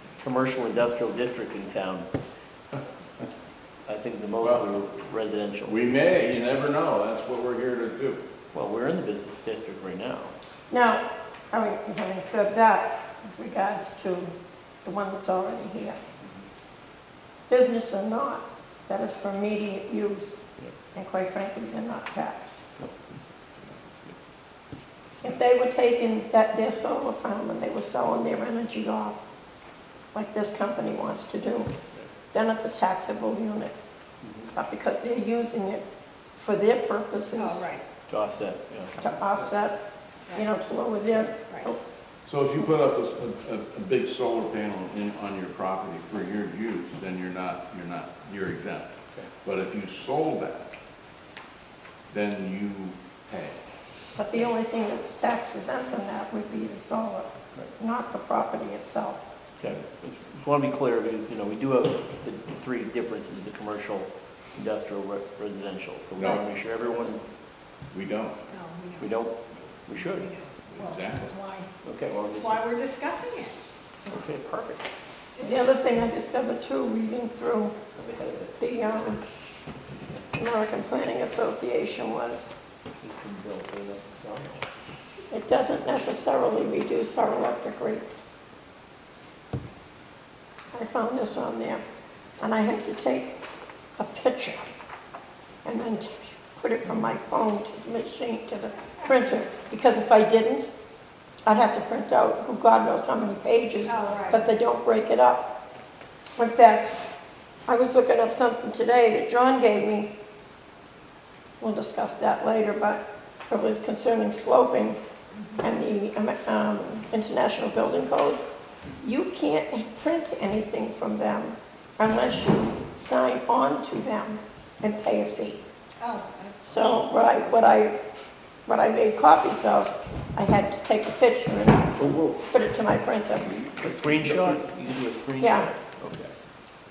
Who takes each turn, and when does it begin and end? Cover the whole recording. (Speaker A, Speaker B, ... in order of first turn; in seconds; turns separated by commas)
Speaker A: 0.2-2.1, Speaker A: 3.9-5.8, Speaker B: 5.7-8.2, Speaker A: 8.5-10.3, Speaker C: 10.7-16.0, Speaker C: 17.5-22.6, Speaker C: 25.2-29.2, Speaker C: 30.1-31.7, Speaker C: 32.3-33.7, Speaker A: 34.2-34.5, Speaker C: 34.5-37.7, Speaker D: 37.3-37.8, Speaker A: 38.1-39.0, Speaker C: 39.0-39.8, Speaker C: 40.3-41.8, Speaker B: 42.2-48.9, Speaker B: 49.4-50.7, Speaker B: 52.1-53.6, Speaker C: 54.1-59.2, Speaker A: 59.6-67.2, Speaker B: 67.9-68.4, Speaker D: 68.5-69.1, Speaker A: 69.0-69.3, Speaker A: 69.9-70.3, Speaker D: 70.2-71.7, Speaker B: 70.7-71.3, Speaker A: 71.8-72.7, Speaker D: 72.3-73.6, Speaker A: 74.1-74.9, Speaker C: 75.4-77.7, Speaker A: 78.0-79.1, Speaker C: 78.6-79.2, Speaker C: 80.3-82.5, Speaker A: 83.0-84.6, Speaker C: 85.3-88.2, Speaker C: 90.7-91.8, Speaker C: 92.4-93.4, Speaker C: 94.0-94.7, Speaker C: 95.6-100.7, Speaker C: 101.4-105.5, Speaker D: 103.9-104.4, Speaker C: 106.3-107.0, Speaker C: 107.7-110.1, Speaker C: 111.6-115.0, Speaker C: 115.6-118.5, Speaker C: 119.0-125.6, Speaker D: 126.0-126.6, Speaker C: 126.6-128.0, Speaker C: 128.7-133.6, Speaker A: 133.8-136.3, Speaker B: 134.0-134.6, Speaker C: 135.4-135.7